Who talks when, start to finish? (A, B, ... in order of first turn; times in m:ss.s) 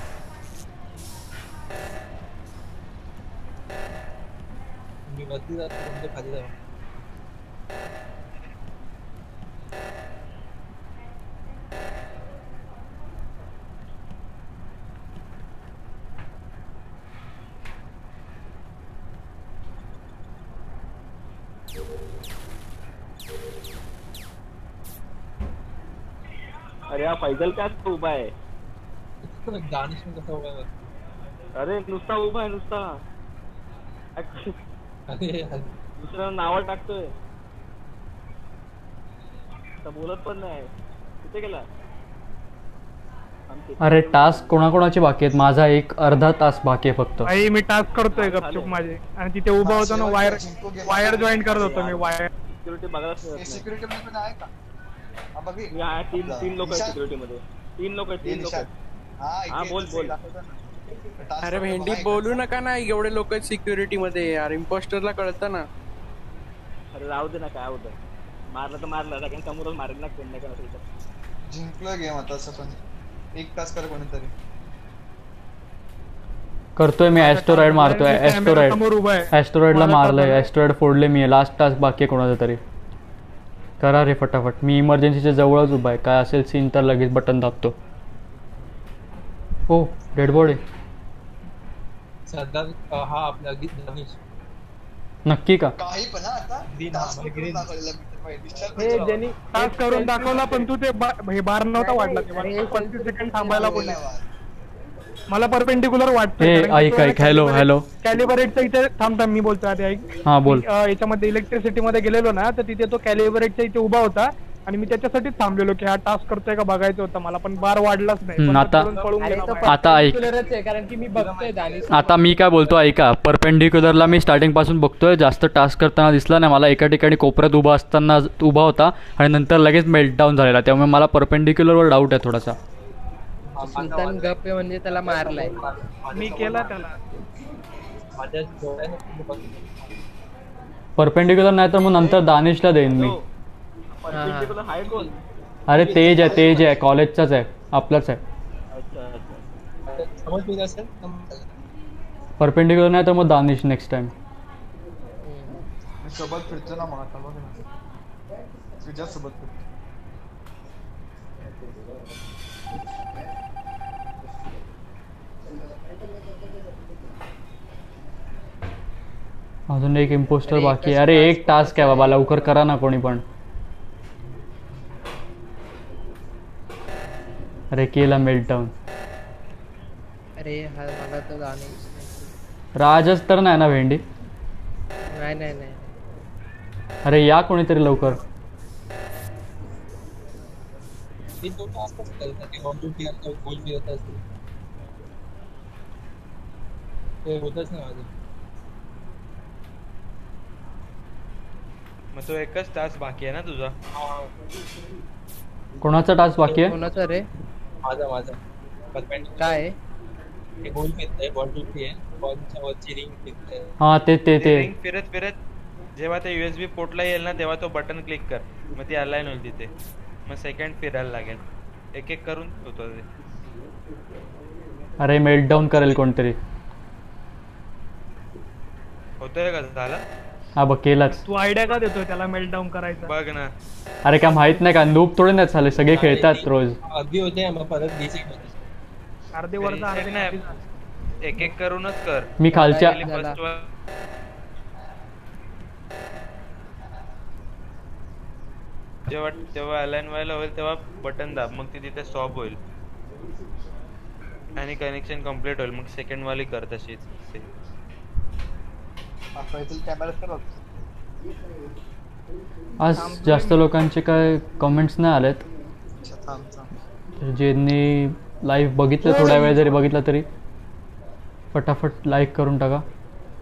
0:05.1-0:06.5 A
0:26.9-0:28.3 B
0:29.2-0:30.7 A
0:31.6-0:33.0 B
0:34.2-0:34.6 B
0:35.1-0:35.7 A
0:36.0-0:37.1 B
0:39.8-0:40.7 B
0:41.2-0:41.7 B
0:43.5-0:44.6 B
0:43.8-0:47.3 C
0:47.2-0:52.3 D
0:48.1-0:48.8 B
0:49.6-0:51.7 E
0:51.3-0:53.7 B
0:53.4-0:54.5 E
0:55.4-0:57.0 E
0:55.7-0:58.7 B
0:58.2-0:58.7 E
0:59.2-1:02.4 E
0:59.5-1:00.2 B
1:01.4-1:05.7 F
1:06.9-1:08.0 B
1:08.5-1:10.8 B
1:11.5-1:12.8 E
1:13.4-1:14.3 E
1:16.8-1:22.6 C
1:17.1-1:20.5 D
1:23.8-1:27.8 C
1:29.7-1:30.6 C
1:32.3-1:34.2 A
1:35.3-1:35.8 C
1:35.8-1:39.2 E
1:36.7-1:37.7 A
1:38.8-1:40.7 G
1:39.5-1:44.0 D
1:41.8-1:43.9 G
1:43.5-1:44.3 E
1:45.3-1:59.9 D
1:46.4-1:47.8 C
1:50.3-1:50.7 C
1:58.4-1:58.9 C
1:59.0-2:02.7 G
1:59.6-2:00.2 C
2:01.1-2:02.7 A
2:01.9-2:12.6 C
2:13.5-2:16.8 A
2:13.6-2:15.6 G
2:16.1-2:17.0 D
2:18.2-2:19.7 A
2:21.0-2:23.2 C
2:22.0-2:22.2 B
2:22.8-2:23.3 B
2:23.9-2:25.2 B
2:24.1-2:24.6 G
2:25.7-2:28.2 C
2:25.7-2:26.8 A
2:28.7-2:29.4 B
2:29.9-2:31.5 A
2:32.4-2:34.1 C
2:35.2-2:35.6 G
2:36.0-2:37.6 E
2:38.8-2:39.6 E
2:49.7-2:53.2 C
2:50.5-2:52.6 G
2:57.7-2:58.7 C
3:00.4-3:02.3 G
3:02.8-3:04.0 C
3:05.1-3:06.0 G
3:07.1-3:08.2 C
3:11.4-3:14.2 A
3:17.2-3:18.1 A
3:22.2-3:23.8 H
3:23.9-3:24.3 A
3:25.8-3:26.7 C
3:26.5-3:26.7 A
3:26.7-3:27.2 G
3:27.8-3:28.4 A
3:28.9-3:29.6 A
3:29.4-3:29.7 G
3:30.6-3:33.7 A
3:33.8-3:34.7 C
3:34.4-3:35.4 H
3:36.0-3:39.7 H
3:40.3-3:41.4 H
3:42.0-3:43.0 H
3:45.0-3:46.4 C
3:49.2-3:50.0 H
3:50.6-3:51.2 C
3:51.1-3:53.1 D
3:53.0-3:53.5 H
3:54.0-3:56.8 C
3:55.9-3:58.5 A
3:59.4-4:00.6 D
3:59.6-4:00.4 H
4:01.2-4:03.7 H
4:02.4-4:03.0 C
4:02.5-4:03.4 G
4:09.1-4:12.6 H
4:14.6-4:17.5 H
4:19.4-4:20.6 E
4:22.8-4:25.4 C
4:22.9-4:23.6 D
4:26.0-4:26.7 E
4:27.2-4:30.3 C
4:29.1-4:29.4 D
4:29.4-4:29.6 E
4:31.5-4:32.8 C